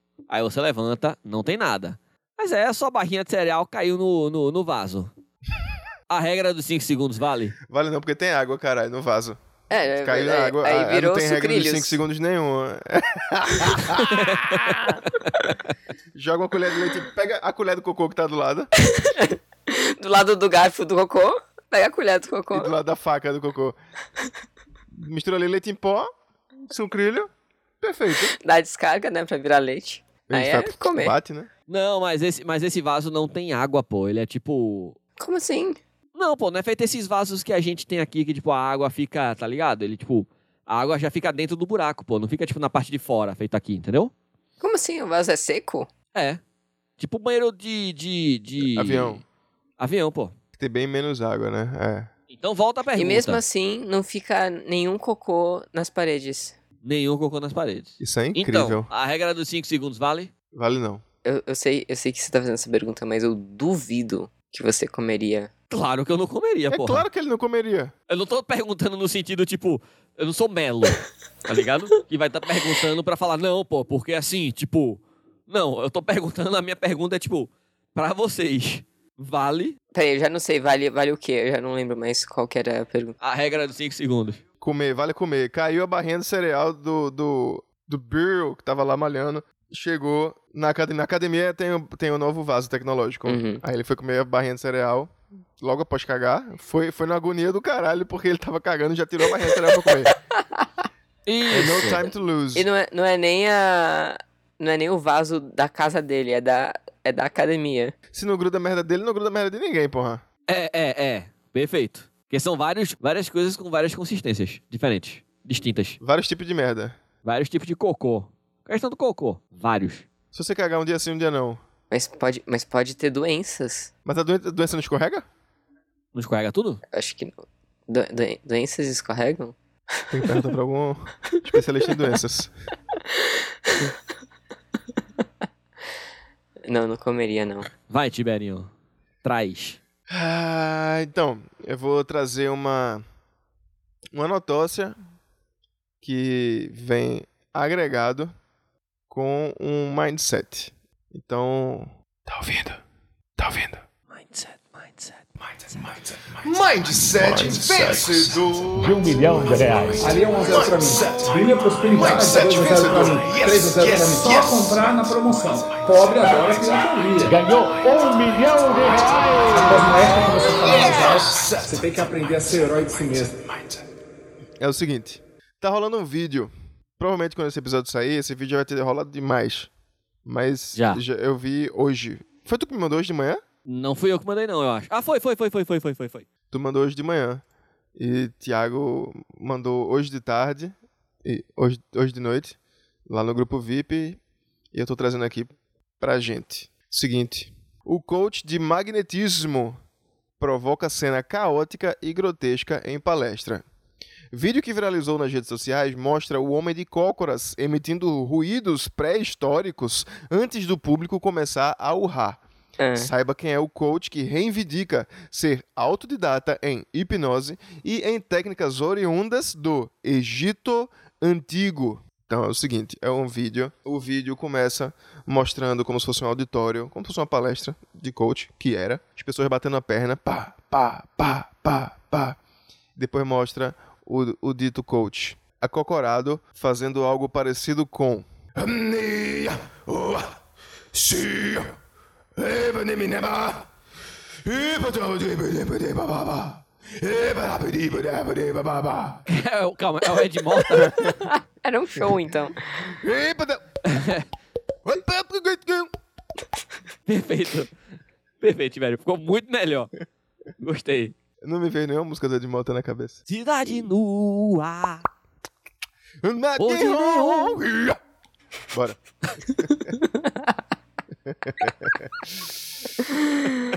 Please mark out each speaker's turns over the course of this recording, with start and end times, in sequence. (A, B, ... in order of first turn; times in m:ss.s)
0:00.3-0:05.1 A
0:06.1-0:07.6 A
0:07.7-0:09.4 B
0:09.7-0:12.0 C
0:10.0-0:14.4 B
0:14.1-0:14.8 A
0:16.1-0:18.7 B
0:18.8-0:22.7 C
0:22.5-0:23.8 B
0:24.9-0:26.1 B
0:26.7-0:27.3 B
0:27.8-0:28.3 B
0:28.3-0:31.2 C
0:30.3-0:31.5 B
0:31.7-0:35.0 A
0:35.2-0:35.8 C
0:36.2-0:44.1 A
0:44.6-0:45.9 C
0:46.1-0:46.4 A
0:47.0-0:49.2 A
0:48.6-0:49.2 B
0:49.8-0:50.3 A
0:50.6-0:52.1 B
0:52.3-0:53.4 A
0:53.0-0:56.6 C
0:56.8-1:00.3 A
0:58.0-0:58.9 B
1:00.5-1:01.0 B
1:01.2-1:05.5 C
1:05.7-1:07.1 A
1:06.7-1:07.9 B
1:08.1-1:19.8 A
1:19.9-1:23.2 C
1:23.2-1:24.4 A
1:24.6-1:40.2 B
1:33.3-1:33.6 C
1:40.0-1:40.9 C
1:41.3-1:42.0 A
1:41.5-1:42.7 B
1:42.6-1:48.0 C
1:48.1-1:50.2 B
1:50.5-1:56.0 A
1:56.0-1:57.0 B
1:57.2-2:00.1 A
2:00.3-2:01.6 B
2:01.9-2:03.9 C
2:04.1-2:05.2 B
2:06.2-2:06.8 A
2:06.9-2:09.6 C
2:10.1-2:12.5 B
2:13.0-2:14.0 C
2:16.6-2:17.7 C
2:17.9-2:18.7 A
2:19.2-2:19.8 A
2:20.1-2:23.0 B
2:24.1-2:25.0 B
2:26.0-2:28.3 B
2:29.1-2:32.8 B
2:33.4-2:33.8 B
2:34.1-2:35.3 A
2:35.6-2:41.3 B
2:38.8-2:40.1 D
2:40.0-2:47.4 E
2:41.9-2:45.1 B
2:47.2-2:49.9 D
2:49.5-2:53.4 E
2:50.6-2:51.7 B
2:54.6-2:59.7 B
3:00.2-3:03.4 B
3:00.8-3:01.0 A
3:03.7-3:06.3 A
3:06.5-3:07.4 B
3:08.0-3:14.2 B
3:14.7-3:19.8 B
3:20.4-3:23.6 B
3:24.3-3:32.4 B
3:32.8-3:33.1 C
3:33.0-3:52.4 B
3:53.0-4:00.4 B
4:00.9-4:01.8 B
4:02.4-4:03.7 B
4:04.4-4:09.2 B
4:09.3-4:11.1 A
4:10.8-4:12.6 C
4:10.8-4:11.1 B
4:12.8-4:14.1 B
4:13.9-4:14.3 A
4:14.8-4:15.9 B
4:17.1-4:17.7 A
4:18.4-4:19.9 A
4:20.6-4:21.2 A
4:21.4-4:23.2 B
4:23.3-4:25.1 A
4:26.2-4:28.0 B
4:26.6-4:27.6 A
4:28.7-4:29.0 B
4:29.6-4:29.9 B
4:30.0-4:30.5 C
4:31.3-4:32.4 B